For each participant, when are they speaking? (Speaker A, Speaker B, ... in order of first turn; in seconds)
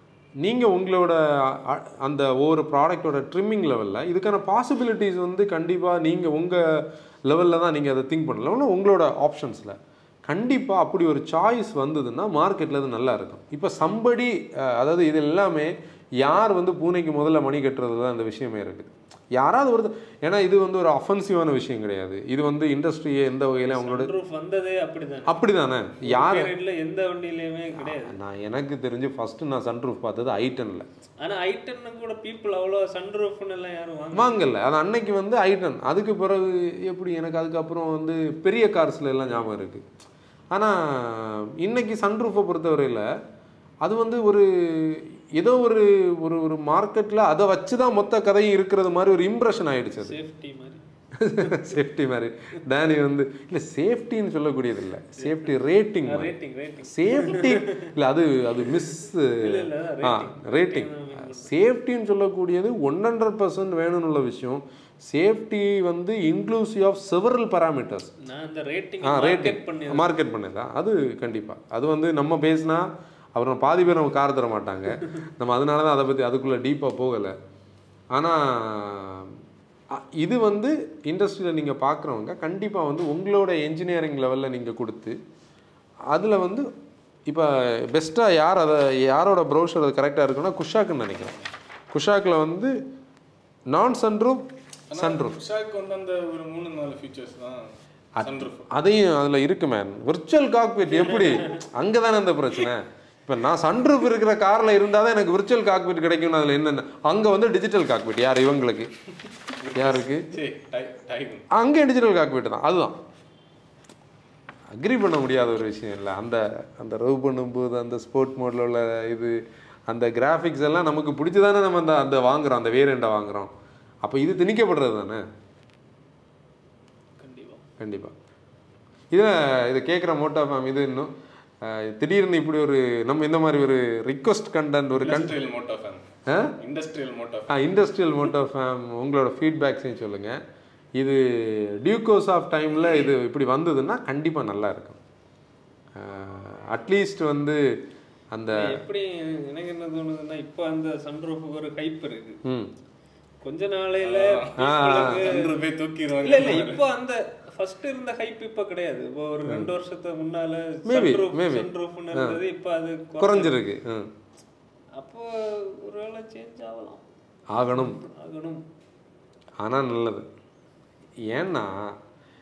Speaker A: 0.4-24.1, 25.3-26.5, 27.7-30.9, 34.1-39.8, 40.5-43.1, 43.8-50.2, 51.1-68.1, 69.0-77.3, 78.1-85.2, 86.1-86.7, 87.3-91.3, 91.9-92.7, 93.7-94.4, 95.0-95.4, 98.2-108.9, 109.7-110.3, 111.5-113.0, 114.7-119.3, 119.9-123.5, 124.0-125.2, 127.8-128.1, 129.1-135.3, 136.3-136.5, 137.5-140.4, 141.0-145.0, 145.9-147.8, 148.3-148.8, 152.4-152.7, 154.6-155.3, 159.4-159.7, 160.8-162.4, 163.2-164.1, 167.5-168.0, 169.6-170.3, 171.3-171.9
Speaker B: 23.6-25.4, 26.0-28.2, 31.2-34.4, 39.3-39.5, 50.0-50.8, 51.4-51.7, 56.0-57.9, 59.3-61.5, 68.2-70.1, 127.2-127.6, 148.5-152.4, 153.4-155.6, 156.2-163.6, 165.0-167.0, 167.8-168.6
Speaker C: 94.9-97.6, 98.2-98.7, 109.6-111.5, 135.0-136.0, 136.6-137.5, 154.0-156.8